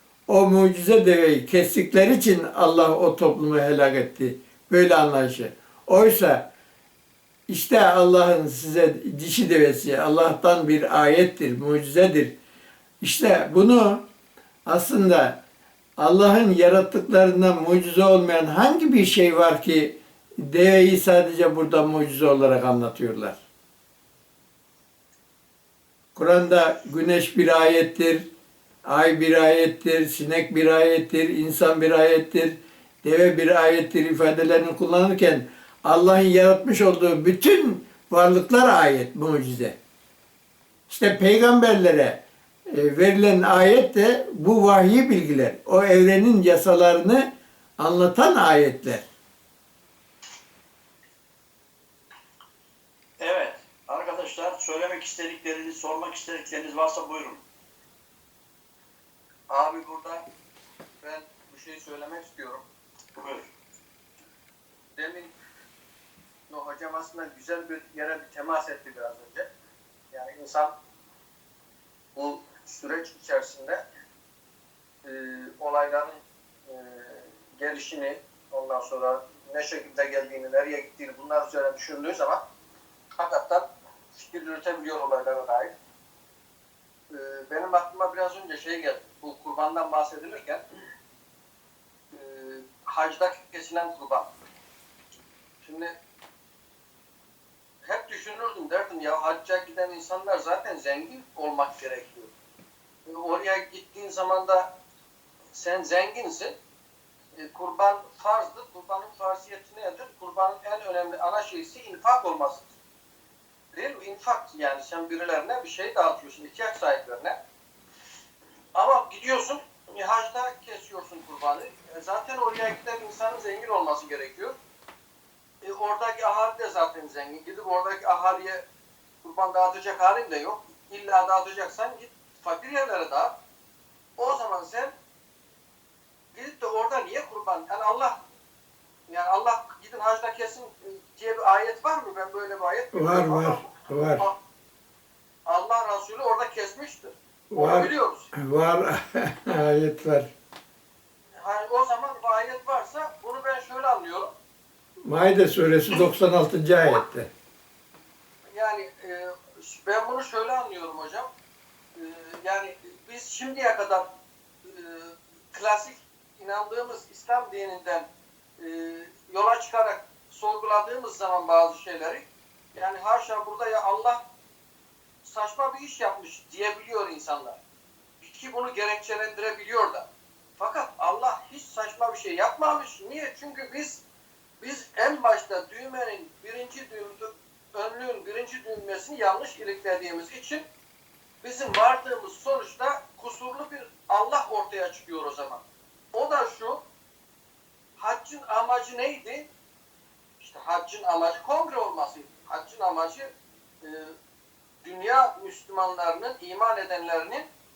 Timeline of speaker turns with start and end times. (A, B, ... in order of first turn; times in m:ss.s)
0:00.3-0:06.5 A
0:07.5-0:12.3 A
0:13.0-0:14.0 A
0:14.7-0:15.4 A
0:16.0-0:23.4 A
0:26.2-0:28.3 A
0:28.8-0:39.8 A
0:40.9-0:49.1 A
0:53.2-0:57.4 B
0:59.5-1:00.2 C
1:01.0-1:02.6 C
1:03.2-1:03.4 B
1:04.9-1:05.3 C
1:06.5-1:09.5 C
1:10.1-1:10.7 C
1:12.1-1:13.8 C
1:15.0-1:22.4 C
1:23.1-1:25.7 C
1:27.1-1:30.6 C
1:32.1-1:34.3 C
1:35.6-1:35.9 C
1:37.8-1:42.3 C
1:43.1-1:44.7 C
1:45.5-1:46.6 C
1:47.4-1:52.6 C
1:53.8-1:57.3 C
1:58.8-2:04.6 C
2:05.6-2:08.6 C
2:09.2-2:13.3 C
2:14.2-2:14.9 C
2:16.3-2:18.1 C
2:19.1-2:24.3 C
2:22.9-2:24.3 A
2:25.4-2:28.3 C
2:27.5-2:30.3 A
2:31.4-2:34.3 C
2:35.0-2:37.3 A
2:38.5-2:41.3 C
2:42.0-2:44.0 C
2:44.6-2:48.1 C
2:48.6-2:54.2 C
2:55.2-2:57.6 C
2:58.2-3:00.1 C
3:00.6-3:04.0 C
3:04.6-3:10.6 C
3:11.4-3:15.6 C
3:16.1-3:16.8 C
3:18.0-3:19.5 C
3:20.4-3:23.3 C
3:23.8-3:24.1 C
3:24.8-3:27.4 C